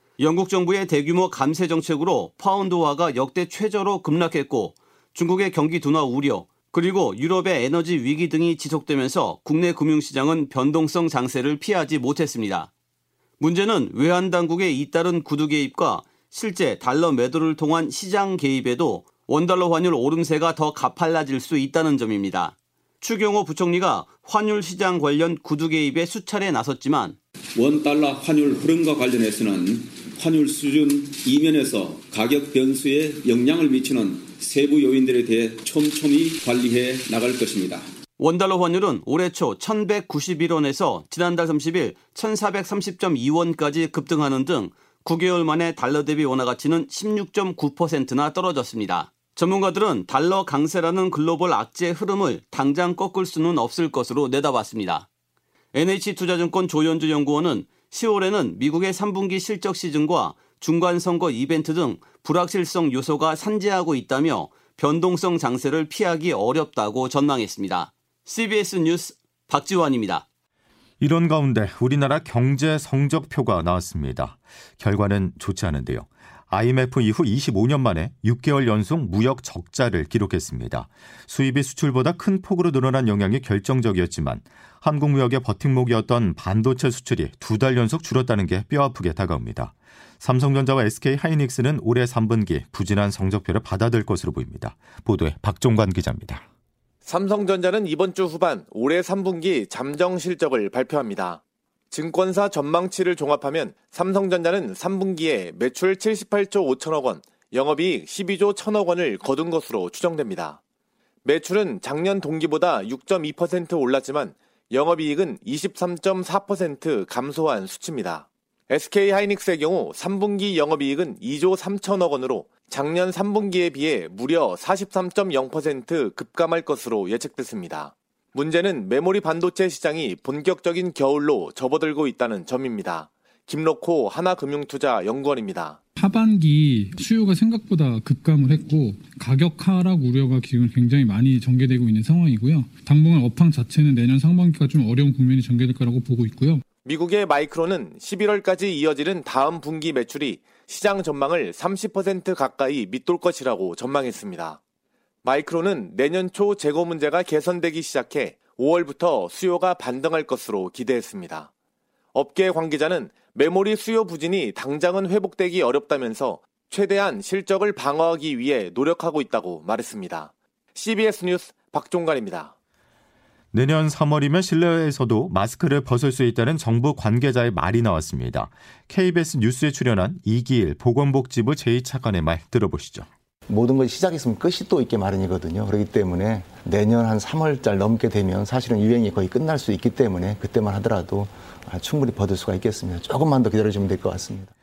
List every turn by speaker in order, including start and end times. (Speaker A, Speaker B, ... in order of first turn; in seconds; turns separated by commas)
Speaker A: 0.2-12.7, Speaker A: 13.4-27.1, Speaker B: 27.5-37.9, Speaker A: 38.2-55.0, Speaker A: 55.7-70.2, Speaker C: 71.0-96.4, Speaker D: 97.0-101.4, Speaker D: 101.9-110.6, Speaker D: 111.2-135.8, Speaker E: 135.9-146.6, Speaker D: 146.8-154.6, Speaker D: 155.2-161.5, Speaker D: 162.1-172.5, Speaker C: 173.5-183.1, Speaker F: 183.5-194.5